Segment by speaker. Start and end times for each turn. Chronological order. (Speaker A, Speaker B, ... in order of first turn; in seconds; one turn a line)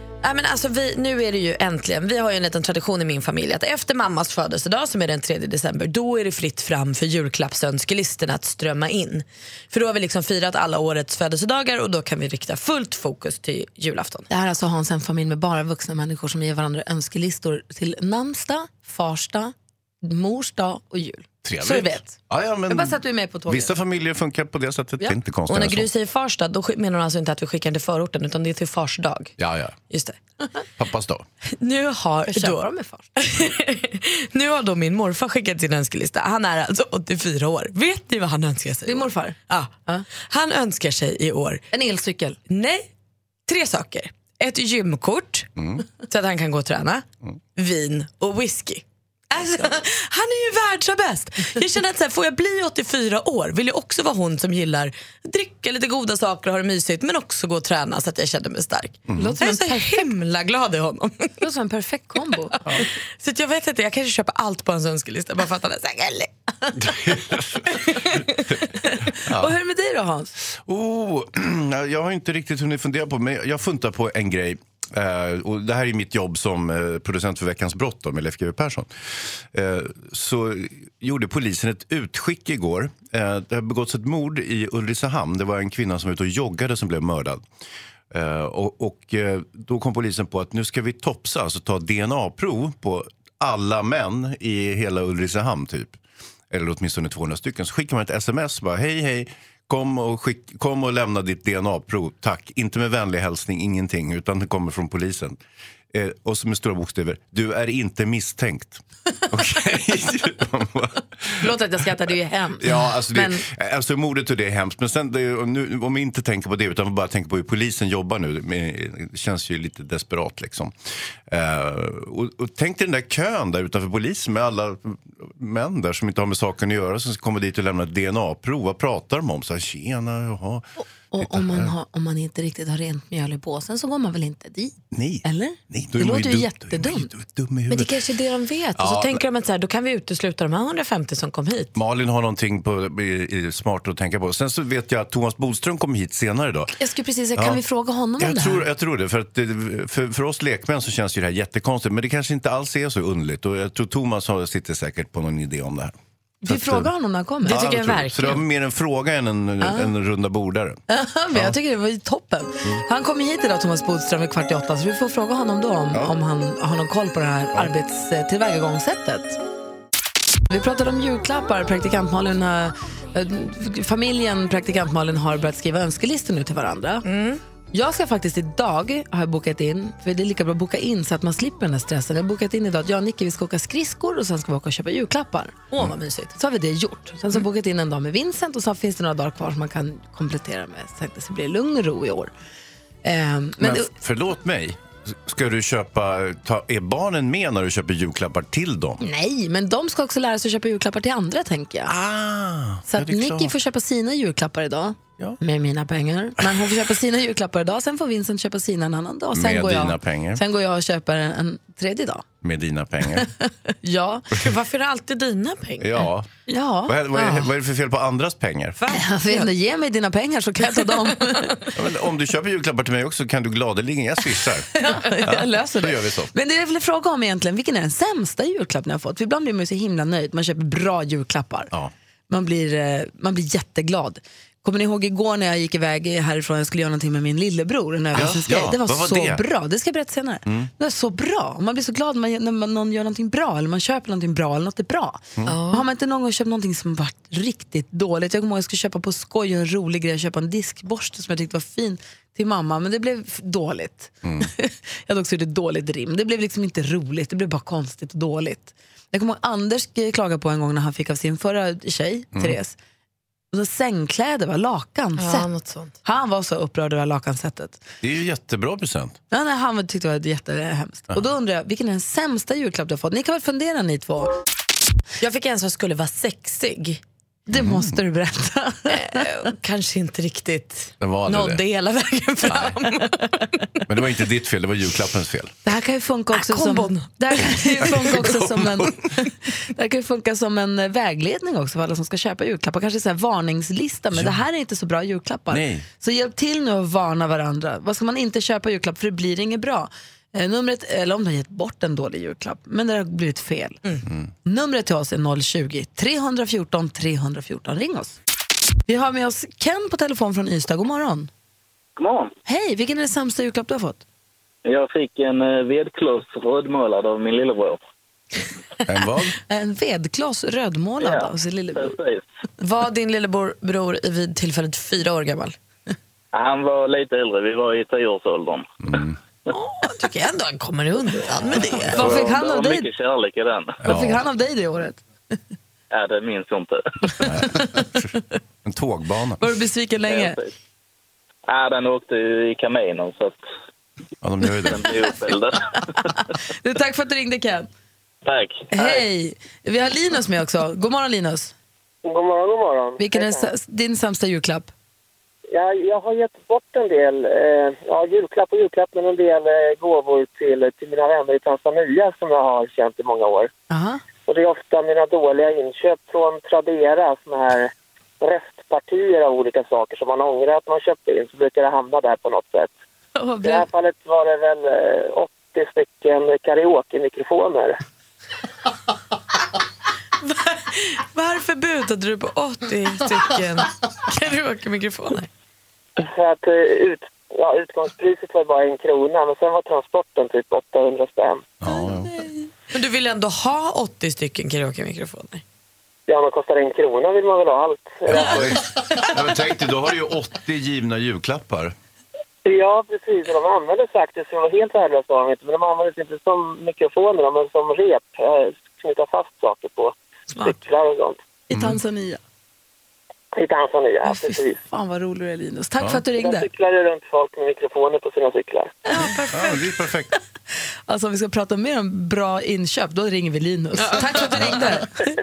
Speaker A: 0.2-14.3
Speaker B: 14.3-22.2
Speaker C: 21.4-25.9
Speaker B: 22.7-23.7
Speaker A: 25.5-29.3
Speaker C: 29.4-29.8
Speaker A: 29.9-30.2
Speaker C: 30.8-31.2
Speaker A: 31.6-32.6
Speaker B: 32.3-33.1
Speaker A: 33.2-41.6
Speaker B: 38.8-40.0
Speaker B: 41.7-42.4
Speaker A: 42.5-42.9
Speaker A: 43.5-47.0
Speaker C: 45.6-45.8
Speaker A: 47.5-61.4
Speaker C: 59.1-59.4
Speaker B: 59.2-60.0
Speaker B: 61.4-62.6
Speaker A: 63.2-66.8
Speaker C: 66.8-67.8
Speaker A: 67.8-68.2
Speaker C: 69.2-69.5
Speaker B: 69.2-70.3
Speaker C: 70.5-78.9
Speaker C: 79.5-87.4
Speaker C: 88.1-105.4
Speaker C: 105.9-111.5
Speaker B: 111.4-113.4
Speaker C: 112.6-120.7
Speaker C: 121.3-130.7
Speaker B: 131.1-137.1
Speaker C: 131.2-131.7
Speaker C: 134.9-137.9
Speaker A: 137.7-141.7
Speaker C: 138.8-139.2
Speaker C: 141.7-146.7
Speaker B: 146.8-148.6
Speaker C: 147.3-147.6
Speaker C: 148.2-155.9
Speaker B: 156.4-157.6
Speaker C: 156.5-156.9
Speaker A: 157.4-158.4
Speaker C: 157.4-160.8
Speaker B: 159.6-159.9
Speaker B: 160.9-169.4
Speaker B: 170.5-177.0
Speaker A: 177.0-177.4
Speaker B: 177.7-185.6
Speaker A: 185.7-186.3
Speaker B: 186.3-192.3
Speaker B: 193.0-193.9
Speaker C: 193.6-199.0
Speaker B: 199.0-201.9
Speaker C: 201.8-203.5
Speaker B: 202.9-212.2
Speaker C: 209.3-210.4
Speaker C: 212.4-213.3
Speaker B: 213.2-214.2
Speaker A: 214.3-216.1
Speaker C: 215.8-216.3
Speaker B: 216.5-217.4
Speaker C: 216.9-218.8
Speaker A: 218.8-219.5
Speaker B: 218.9-221.6
Speaker A: 220.8-221.3
Speaker C: 221.7-226.3
Speaker B: 224.8-231.7
Speaker B: 232.3-262.8
Speaker C: 238.1-239.4
Speaker C: 240.4-240.7
Speaker A: 245.4-245.8
Speaker B: 263.5-265.5
Speaker A: 265.2-265.9
Speaker B: 266.0-267.8
Speaker C: 268.0-269.2
Speaker B: 269.3-274.3
Speaker A: 275.2-277.0
Speaker B: 277.5-279.2
Speaker C: 277.5-277.9
Speaker A: 278.9-283.8
Speaker C: 281.0-281.6
Speaker C: 282.4-282.8
Speaker C: 283.9-285.5
Speaker B: 285.6-303.8
Speaker A: 286.3-288.3
Speaker C: 294.1-294.4
Speaker C: 295.5-295.8
Speaker B: 304.4-308.2
Speaker B: 308.9-311.3
Speaker D: 312.0-312.3
Speaker B: 312.4-314.0
Speaker D: 314.6-317.8
Speaker C: 318.9-319.3
Speaker B: 319.4-321.9
Speaker D: 321.0-322.2
Speaker A: 322.6-325.5
Speaker D: 326.3-328.7
Speaker C: 328.8-329.2
Speaker A: 329.5-332.2
Speaker B: 331.8-332.9
Speaker D: 331.9-333.8
Speaker B: 333.8-335.0
Speaker C: 333.8-334.2
Speaker D: 335.9-336.8
Speaker C: 337.2-338.1
Speaker C: 338.6-339.5
Speaker B: 339.4-340.4
Speaker D: 340.1-340.5
Speaker D: 341.5-343.4
Speaker C: 344.2-344.9
Speaker D: 344.7-345.6
Speaker B: 345.8-347.7
Speaker D: 348.2-349.0
Speaker B: 348.7-351.5
Speaker E: 352.0-353.5
Speaker B: 353.0-354.7
Speaker E: 355.5-363.5
Speaker B: 363.7-364.0
Speaker E: 364.3-372.7
Speaker B: 373.1-373.6
Speaker E: 373.4-377.8
Speaker A: 380.2-385.3
Speaker E: 386.0-391.4
Speaker C: 391.6-392.1
Speaker A: 392.7-395.4
Speaker E: 396.1-398.5
Speaker C: 398.1-401.7
Speaker E: 402.4-411.2
Speaker B: 411.5-412.2
Speaker C: 411.5-411.8
Speaker E: 413.3-414.6
Speaker B: 414.1-416.5
Speaker E: 416.2-418.7
Speaker A: 418.9-419.5
Speaker C: 419.0-420.1
Speaker B: 420.9-424.9
Speaker A: 423.9-424.5